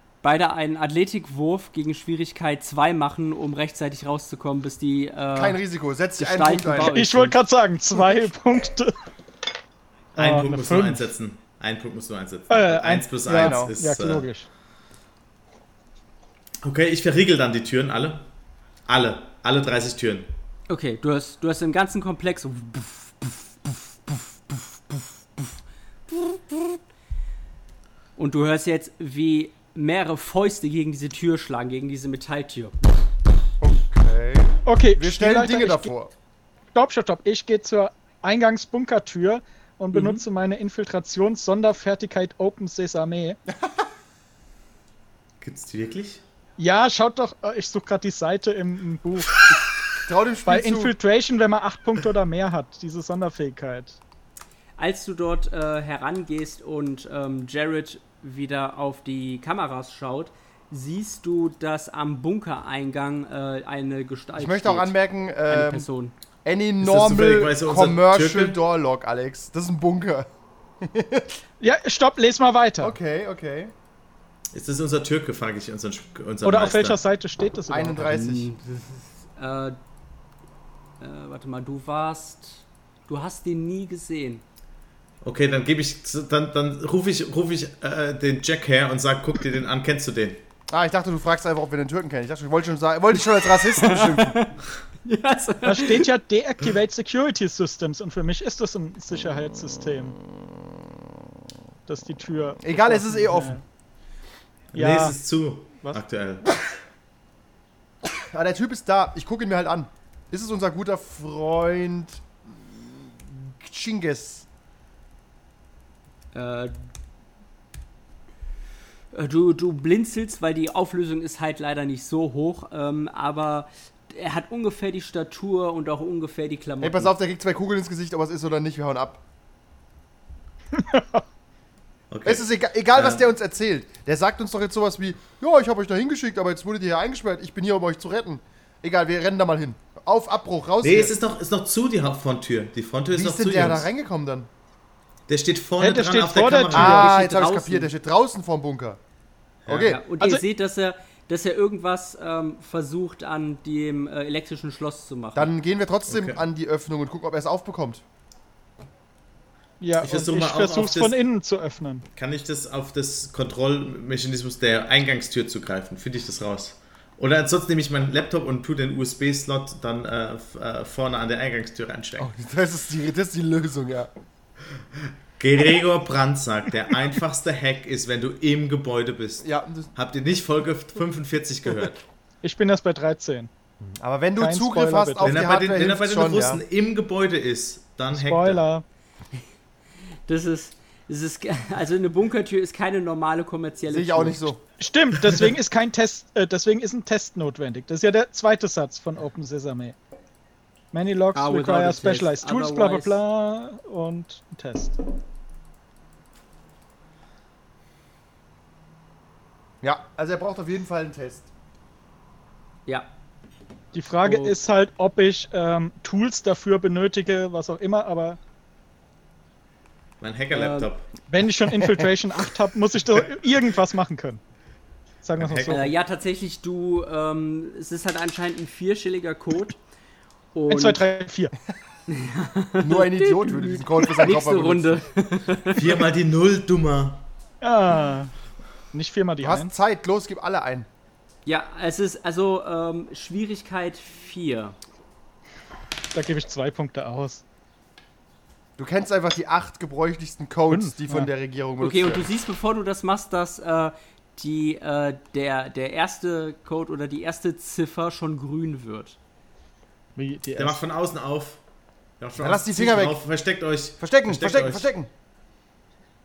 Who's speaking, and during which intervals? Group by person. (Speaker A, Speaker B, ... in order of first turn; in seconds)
Speaker A: 0.2-5.6, 6.2-7.4, 20.7-25.6, 26.1-26.8, 28.2-32.8, 39.9-40.2, 54.8-65.0, 65.5-66.1, 78.0-79.8, 81.0-84.4, 93.6-96.1, 116.3-116.7, 119.1-127.1, 147.0-147.9, 149.8-155.5, 190.3-194.5, 201.3-203.2, 214.2-214.6, 220.5-220.9, 225.7-229.8, 230.5-231.0, 232.1-236.0, 241.4-244.8, 251.8-259.2
Speaker B: 5.3-7.0, 13.3-13.7, 33.6-36.1, 43.5-43.8, 50.0-50.9, 64.4-65.8, 66.4-70.3, 70.8-71.4, 72.8-73.7, 77.7-78.5, 90.7-94.4, 102.6-103.6, 108.2-114.5, 126.8-129.2, 132.2-141.1, 143.1-144.5, 146.7-149.0, 149.7-150.0, 155.3-158.0, 172.2-174.1, 179.4-179.9, 183.8-186.6, 193.9-194.6, 209.8-211.5, 232.8-235.0, 239.4-240.9, 248.8-252.3, 262.4-263.2, 264.0-265.1
Speaker C: 6.8-8.9, 10.2-11.1, 12.5-14.5, 34.6-35.9, 36.7-43.4, 46.6-49.5, 50.5-54.0, 71.6-73.0, 76.4-78.2, 95.6-100.2, 101.9-103.6, 104.7-105.2, 130.7-131.2, 145.8-147.2, 159.8-162.0, 182.4-183.5, 184.4-185.4, 188.1-188.8, 194.8-199.9, 200.9-205.0, 213.9-218.4, 221.3-224.4, 225.2-225.9, 230.7-231.5, 237.6-238.3, 238.9-239.7, 246.1-247.4, 250.7-251.3, 260.1-260.8
Speaker D: 10.1-14.2, 16.6-18.2, 18.9-20.3, 45.4-46.2, 66.8-68.6, 74.5-77.0, 85.2-90.4, 104.7-106.6, 132.1-133.2, 140.8-143.9, 145.3-147.1, 149.7-149.9, 156.1-156.4, 160.0-161.2, 162.2-172.3, 175.4-182.0, 185.2-188.6, 220.2-221.1, 225.4-225.8, 235.7-237.2, 260.6-261.6, 262.2-264.9